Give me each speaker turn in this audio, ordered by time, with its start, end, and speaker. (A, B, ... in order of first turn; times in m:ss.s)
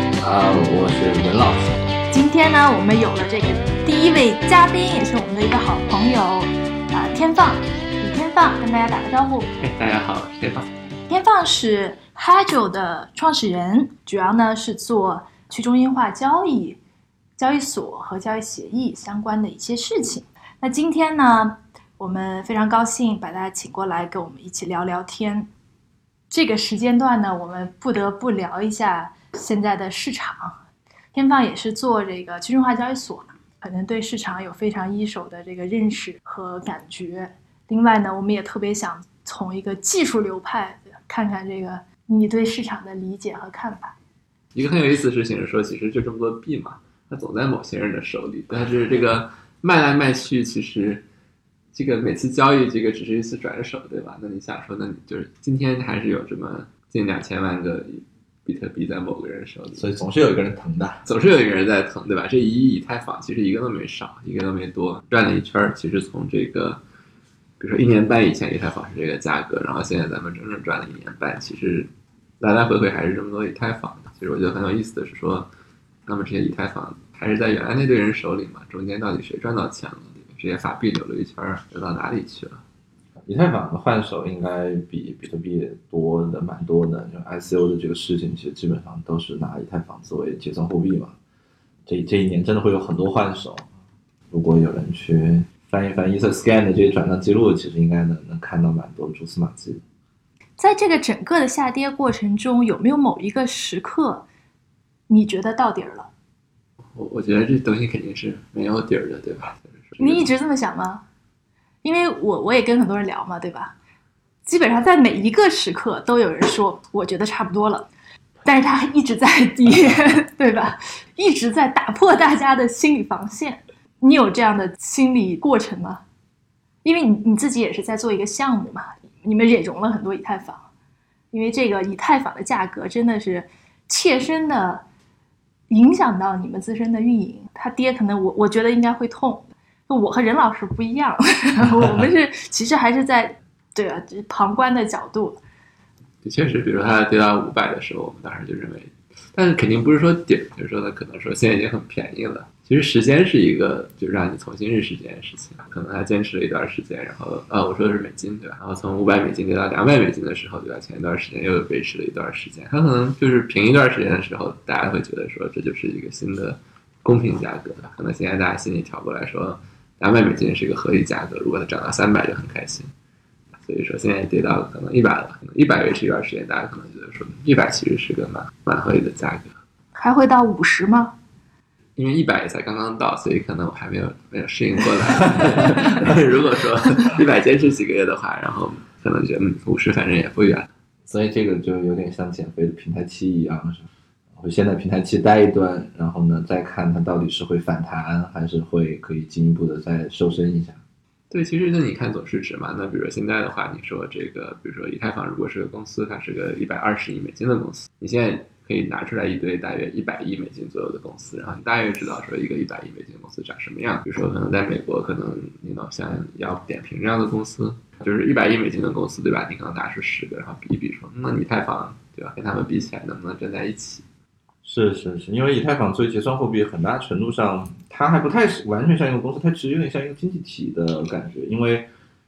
0:00.2-0:01.7 A
0:02.1-0:09.5 B
0:09.6-0:10.7 C
0:11.1-0:16.8 B
0:17.4-0:25.5 B
0:26.3-0:30.6 B
0:31.1-0:44.0 B
0:44.5-0:51.0 C
0:51.7-0:59.8 C
0:59.8-1:01.0 A
1:01.0-1:06.8 C
1:07.6-1:15.5 C
1:16.0-1:22.6 C
1:23.2-1:31.2 A
1:31.9-1:33.7 A
1:34.3-1:39.8 A
1:40.6-1:44.3 B
1:45.1-1:46.1 B
1:46.9-1:50.3 C
1:50.0-1:51.0 B
1:51.8-1:53.7 B
1:54.4-1:57.9 B
1:58.4-2:06.0 B
2:06.8-2:10.7 B
2:11.3-2:14.8 B
2:15.7-2:25.4 B
2:26.2-2:52.9 C
2:53.6-2:59.5 C
2:59.9-3:01.1 B
3:02.0-3:10.7 C
3:11.0-3:13.8 A
3:14.4-3:20.8 A
3:21.3-3:44.0 C
3:44.6-3:51.9 A